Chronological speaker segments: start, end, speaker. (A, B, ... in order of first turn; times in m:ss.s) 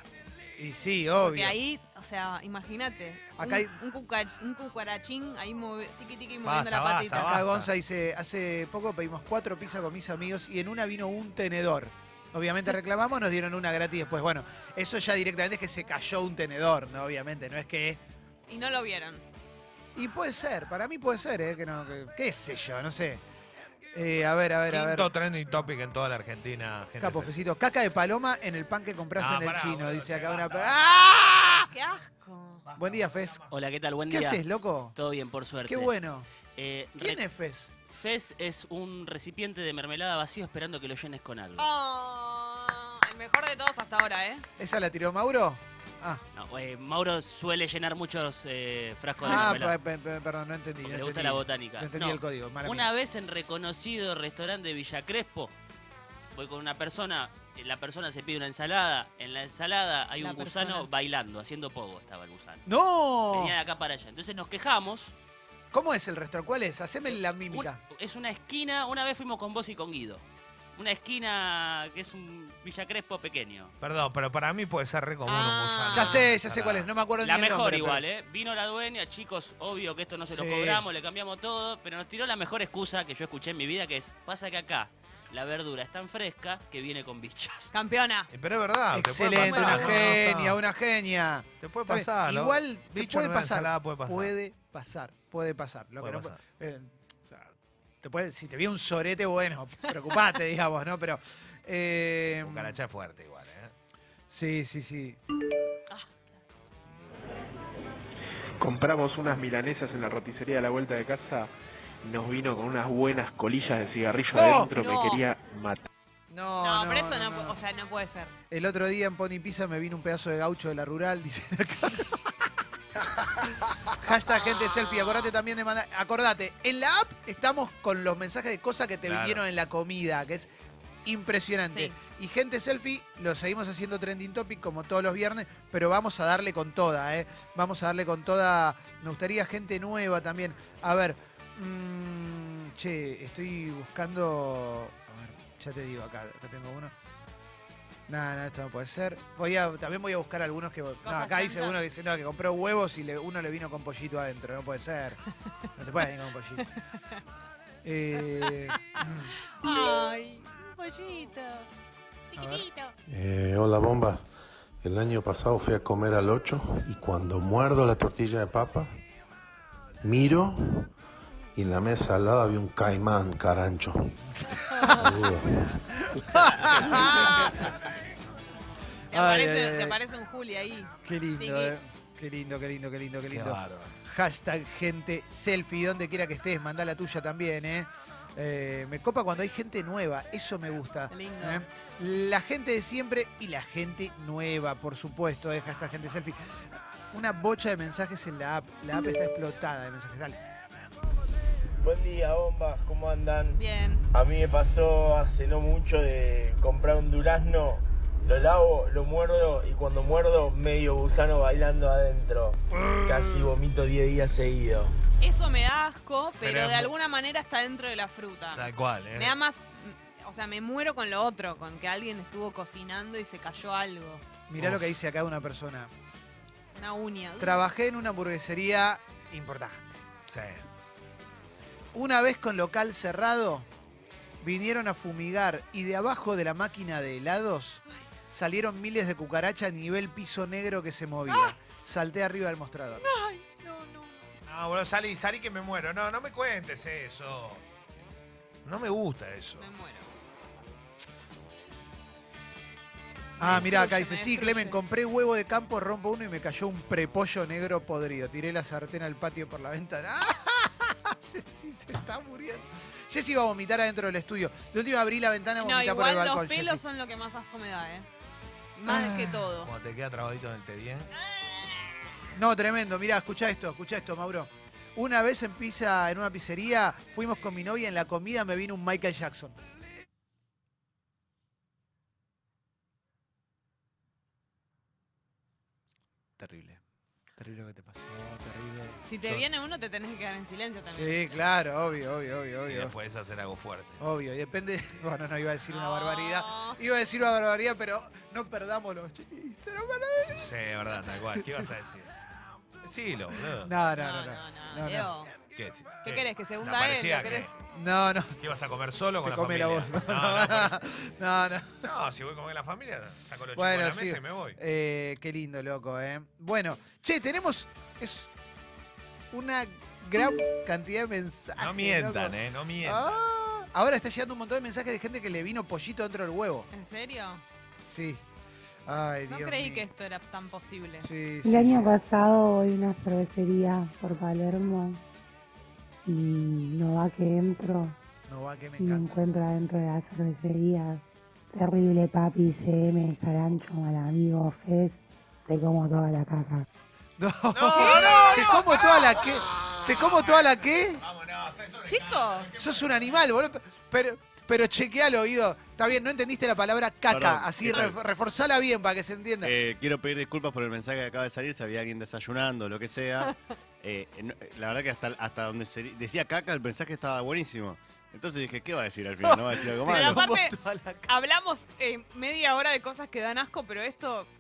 0:00.6-0:01.6 A
0:01.2-0:07.3 B
0:03.4-0:03.7 A
0:06.4-0:07.7 C
0:07.1-0:18.0 A
0:18.5-0:19.2 B
0:20.0-0:23.2 A
0:23.9-0:25.1 A
0:24.7-0:27.3 C
0:27.0-0:31.7 A
0:29.2-0:30.8 C
0:31.7-0:32.6 B
0:32.7-0:33.6 C
0:32.8-0:33.4 A
0:33.5-0:34.4 D
0:34.1-0:35.0 A
0:35.0-0:35.9 D
0:35.7-0:36.3 A
0:36.6-0:37.2 D
0:37.0-0:37.7 A
0:37.9-0:41.7 D
0:41.6-0:44.5 B
0:44.6-0:46.2 A
0:46.3-0:49.8 D
0:49.2-0:52.9 A
0:49.2-0:49.5 B
0:50.8-0:55.6 D
0:56.3-1:02.6 D
1:00.2-1:00.9 B
1:02.7-1:03.6 A
1:03.3-1:05.1 D
1:05.7-1:07.8 A
1:07.5-1:10.2 D
1:10.8-1:13.7 D
1:13.8-1:16.9 C
1:15.3-1:16.2 B
1:15.9-1:18.0 A
1:17.2-1:27.7 D
1:20.3-1:20.8 A
1:27.7-1:28.3 B
1:28.3-1:30.6 C
1:28.9-1:37.5 A
1:29.4-1:30.1 B
1:31.6-1:34.3 C
1:36.0-1:36.4 C
1:38.0-1:42.8 A
1:42.4-1:43.7 C
1:44.3-1:45.2 A
1:48.6-1:51.5 E
1:52.0-1:55.8 E
1:54.3-1:54.7 A
1:54.7-1:55.2 B
1:56.3-1:57.6 A
1:56.6-1:58.4 B
1:58.5-2:02.4 A
2:03.4-2:10.5 A
2:09.1-2:09.4 C
2:11.0-2:26.9 A
2:11.7-2:12.0 B
2:28.1-2:35.2 A
2:31.0-2:31.8 B
2:35.8-2:36.7 A
2:37.8-2:39.3 A
2:38.4-2:41.7 B
2:42.3-2:42.9 B
2:42.4-2:42.7 A
2:43.1-2:44.3 F
2:44.8-2:49.0 F
2:50.0-2:50.9 F
2:51.6-2:54.2 F
2:54.8-2:55.1 A
2:55.0-2:55.8 F
2:56.0-2:57.8 A
2:59.1-3:01.8 B
2:59.1-3:00.0 A
3:01.0-3:20.4 A
3:03.3-3:04.0 C
3:11.1-3:11.6 B
3:21.8-3:23.6 G
3:23.6-3:24.0 B
3:24.1-3:35.0 G
3:35.2-3:44.2 B
3:36.4-3:36.9 C
3:38.5-3:39.4 C
3:44.5-3:45.9 A
3:44.6-3:45.0 C
3:46.7-3:47.6 B
3:47.4-3:50.0 A
3:50.3-3:50.6 C
3:51.9-3:53.7 A
3:54.4-4:03.0 A
4:01.3-4:01.6 B
4:03.0-4:04.3 B
4:04.5-4:07.6 C
4:08.6-4:09.7 C
4:09.6-4:10.1 B
4:13.4-4:26.8 A
4:13.4-4:14.8 B
4:25.6-4:28.1 B
4:28.8-4:29.5 A
4:28.8-4:29.7 B
4:29.6-4:31.1 C
4:32.3-4:39.6 A
4:46.4-4:46.8 A
4:47.4-4:49.4 A
4:49.0-4:51.4 B
4:50.9-4:52.9 A
4:52.7-4:54.0 C
4:54.0-5:00.5 A
4:55.7-4:56.8 B
5:00.4-5:02.1 C
5:01.4-5:01.7 A
5:02.8-5:03.7 C
5:03.5-5:05.1 A
5:03.9-5:05.3 B
5:05.5-5:07.5 C
5:06.0-5:07.5 B
5:07.7-5:08.4 A
5:08.4-5:10.8 C
5:09.2-5:11.9 A
5:11.8-5:14.6 C
5:13.6-5:18.3 A
5:19.3-5:26.7 A
5:21.6-5:23.2 C
5:26.7-5:27.4 B
5:27.8-5:28.2 A
5:28.9-5:29.8 A
5:29.3-5:31.1 B
5:31.0-5:31.9 A
5:31.4-5:35.0 H
5:36.0-5:38.0 H
5:38.3-5:39.1 A
5:38.8-5:41.0 H
5:41.5-5:46.7 H
5:47.2-5:51.0 A
5:47.5-5:53.2 C
5:47.8-5:48.7 B
5:51.9-5:52.5 B
5:52.6-5:59.5 A
5:57.1-5:57.9 I
5:59.4-6:03.1 I
5:59.9-6:03.2 E
6:03.8-6:10.2 I
6:04.7-6:09.2 E
6:09.2-6:11.1 A
6:09.8-6:10.6 B
6:11.1-6:14.3 B